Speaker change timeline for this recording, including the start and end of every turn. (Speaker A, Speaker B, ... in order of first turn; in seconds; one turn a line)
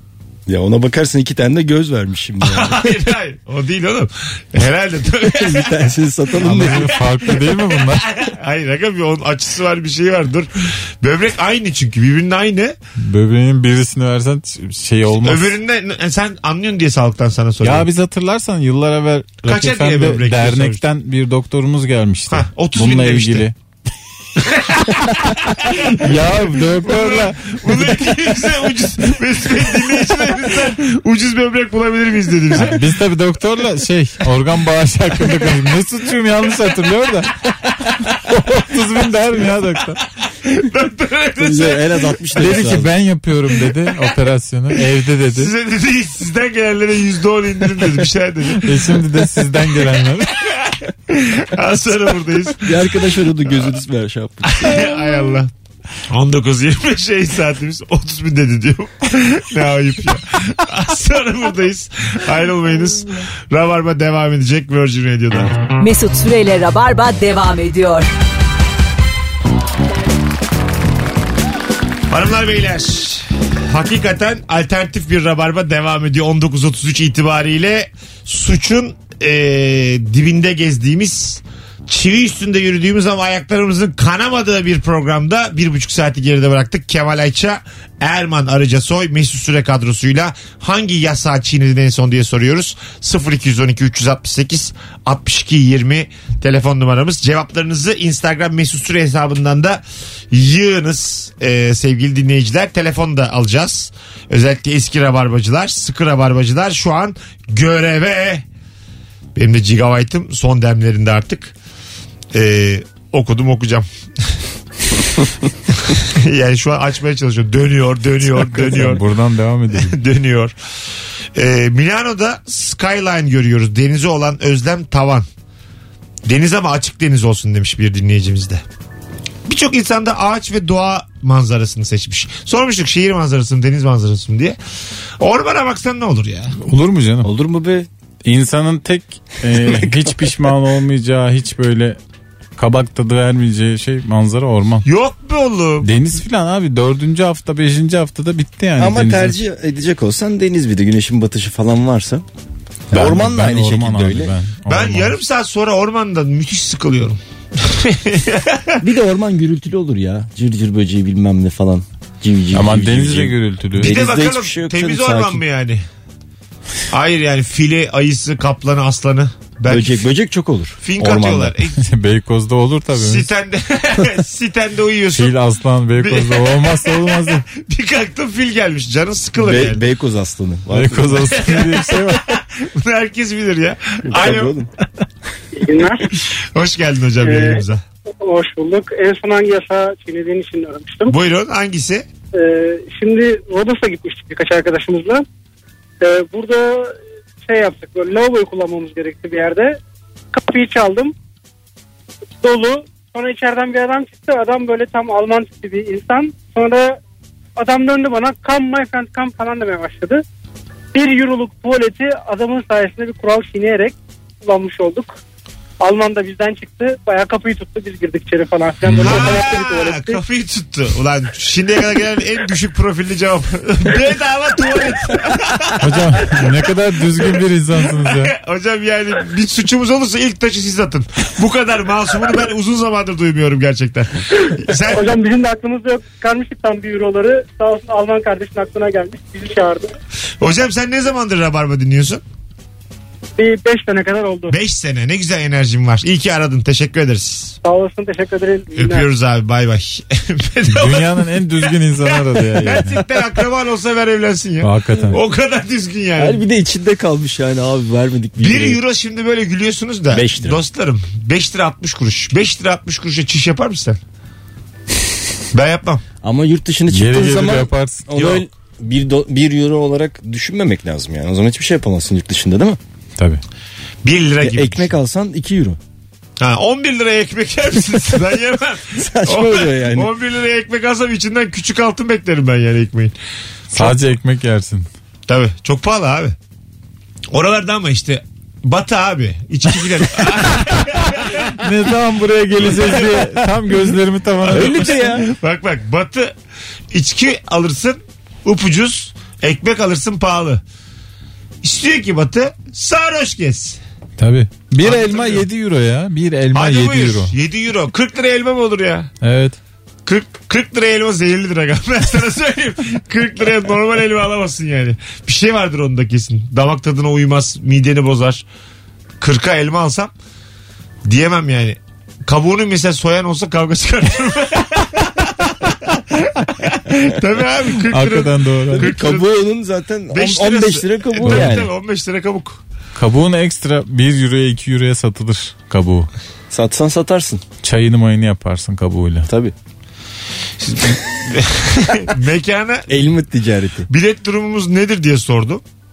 Speaker A: 0.5-3.0
Speaker B: 2.4-6.0
Speaker A: 5.3-6.9
Speaker C: 6.4-8.1
Speaker B: 6.6-12.8
Speaker C: 13.0-15.6
Speaker B: 15.2-17.9
Speaker C: 17.6-23.6
Speaker B: 19.4-20.8
Speaker B: 22.3-23.5
Speaker B: 24.4-32.8
Speaker C: 25.8-28.2
Speaker C: 32.5-37.4
Speaker C: 38.0-40.0
Speaker B: 40.3-41.8
Speaker A: 41.4-42.9
Speaker C: 42.4-45.5
Speaker B: 45.3-48.9
Speaker C: 48.6-50.4
Speaker B: 50.4-53.0
Speaker A: 52.6-54.7
Speaker B: 54.4-55.5
Speaker B: 56.1-65.6
Speaker D: 65.8-68.1
Speaker B: 72.1-108.4
Speaker B: 109.3-111.5
Speaker B: 112.3-113.9
Speaker B: 115.7-119.0
Speaker C: 118.3-120.0
Speaker B: 119.7-120.5
Speaker B: 121.3-125.3
Speaker B: 126.2-128.6
Speaker B: 129.4-134.6
Speaker B: 135.2-136.6
Speaker C: 136.6-137.3
Speaker A: 137.2-137.9
Speaker C: 138.2-142.0
Speaker A: 139.6-140.1
Speaker C: 142.6-144.8
Speaker B: 144.8-145.9
Speaker C: 145.8-149.4
Speaker A: 148.8-152.2
Speaker C: 152.9-155.2
Speaker A: 152.9-154.3
Speaker B: 154.7-158.8
Speaker A: 158.8-165.4
Speaker C: 162.5-164.0
Speaker B: 163.8-165.8
Speaker B: 166.9-170.0
Speaker A: 169.7-171.5
Speaker B: 170.8-171.8
Speaker C: 171.8-173.3
Speaker B: 172.9-175.4
Speaker C: 175.1-177.4
Speaker B: 175.9-179.8
Speaker A: 179.4-181.3
Speaker C: 180.7-182.4
Speaker B: 181.4-184.6
Speaker A: 184.1-184.7
Speaker E: 185.6-186.1
Speaker B: 186.2-187.8
Speaker E: 187.2-187.6
Speaker E: 188.2-191.2
Speaker B: 191.1-192.1
Speaker E: 192.3-195.2
Speaker E: 196.0-199.8
Speaker E: 200.3-201.1
Speaker E: 202.4-207.0
Speaker E: 207.6-210.2
Speaker E: 210.9-215.2
Speaker E: 215.8-220.2
Speaker C: 218.8-219.4
Speaker B: 219.0-226.5
Speaker C: 225.8-228.3
Speaker B: 227.2-235.1
Speaker E: 234.9-239.9
Speaker B: 240.4-242.2
Speaker E: 243.4-244.6
Speaker B: 244.5-247.6
Speaker E: 247.6-249.1
Speaker B: 248.8-256.4
Speaker C: 250.7-253.0
Speaker C: 254.6-255.2
Speaker A: 256.2-258.8
Speaker B: 258.4-264.0
Speaker A: 260.1-260.6
Speaker B: 265.5-266.0
Speaker A: 266.2-272.8
Speaker C: 266.9-268.1
Speaker B: 268.1-268.4
Speaker C: 273.2-273.4
Speaker B: 274.0-274.9
Speaker A: 274.4-275.8
Speaker B: 276.4-283.1
Speaker A: 279.0-280.1
Speaker C: 283.7-284.9
Speaker B: 285.3-286.4
Speaker B: 287.3-291.5
Speaker C: 291.5-295.0
Speaker B: 292.7-293.0
Speaker B: 294.4-296.3
Speaker A: 294.5-295.3
Speaker B: 296.9-300.6
Speaker B: 301.6-303.8
Speaker C: 304.2-307.3
Speaker B: 304.8-305.4
Speaker B: 306.5-309.1
Speaker C: 309.2-309.6
Speaker B: 310.1-318.4
Speaker B: 319.2-320.1
Speaker B: 321.1-329.3
Speaker C: 327.9-328.9
Speaker A: 328.7-331.7
Speaker B: 330.1-332.6
Speaker C: 331.2-331.6
Speaker C: 332.9-336.1
Speaker A: 336.5-337.4
Speaker C: 337.6-339.3
Speaker A: 339.3-339.5
Speaker B: 340.6-343.1
Speaker A: 342.9-343.9
Speaker B: 343.9-345.6